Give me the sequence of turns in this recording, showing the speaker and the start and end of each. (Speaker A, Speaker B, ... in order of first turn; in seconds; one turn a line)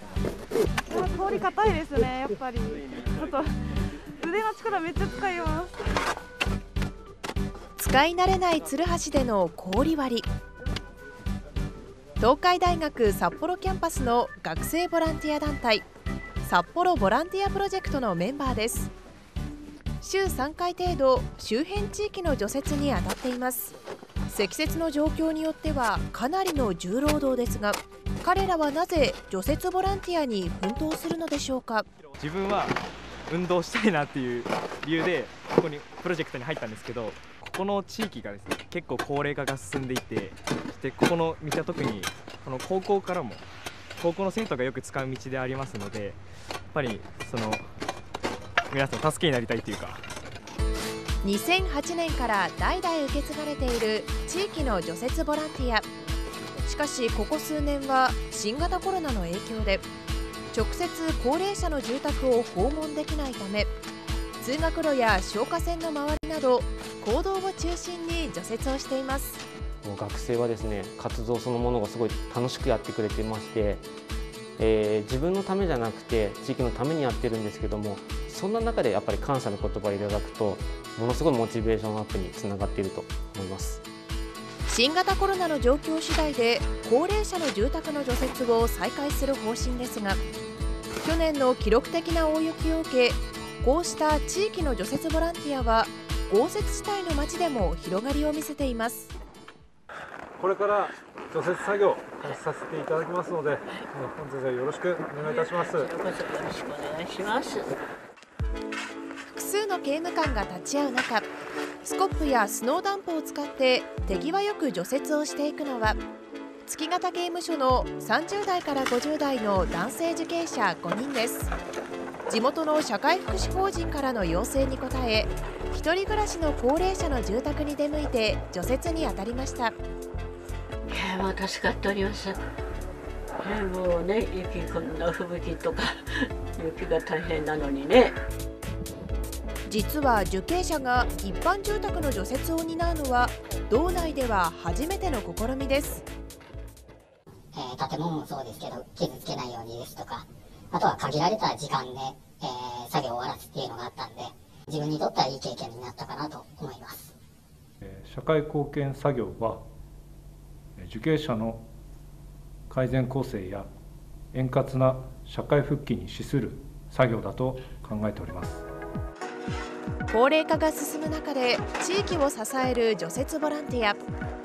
Speaker A: 0.9-3.6
Speaker A: 4.2-5.7
Speaker B: 7.8-10.3
Speaker B: 12.2-15.9
Speaker B: 16.4-18.9
Speaker B: 20.0-23.7
Speaker B: 24.3-31.9
Speaker C: 32.2-32.8
Speaker C: 33.3-43.5
Speaker C: 44.0-46.2
Speaker C: 46.7-47.6
Speaker C: 48.7-50.0
Speaker B: 51.2-55.9
Speaker B: 56.6-59.8
Speaker B: 60.5-63.7
Speaker B: 64.4-69.4
Speaker D: 69.8-73.9
Speaker D: 74.6-83.8
Speaker B: 84.7-90.2
Speaker B: 91.0-99.1
Speaker E: 100.4-105.9
Speaker F: 105.2-107.8
Speaker B: 109.3-111.3
Speaker B: 111.8-116.0
Speaker B: 116.7-121.5
Speaker B: 122.3-129.8
Speaker F: 130.9-132.4
Speaker F: 133.4-138.2
Speaker B: 139.7-146.0
Speaker G: 147.5-157.1
Speaker E: 157.8-159.7
Speaker E: 160.8-161.7
Speaker E: 162.7-163.7
Speaker E: 164.3-168.7
Speaker B: 170.1-174.0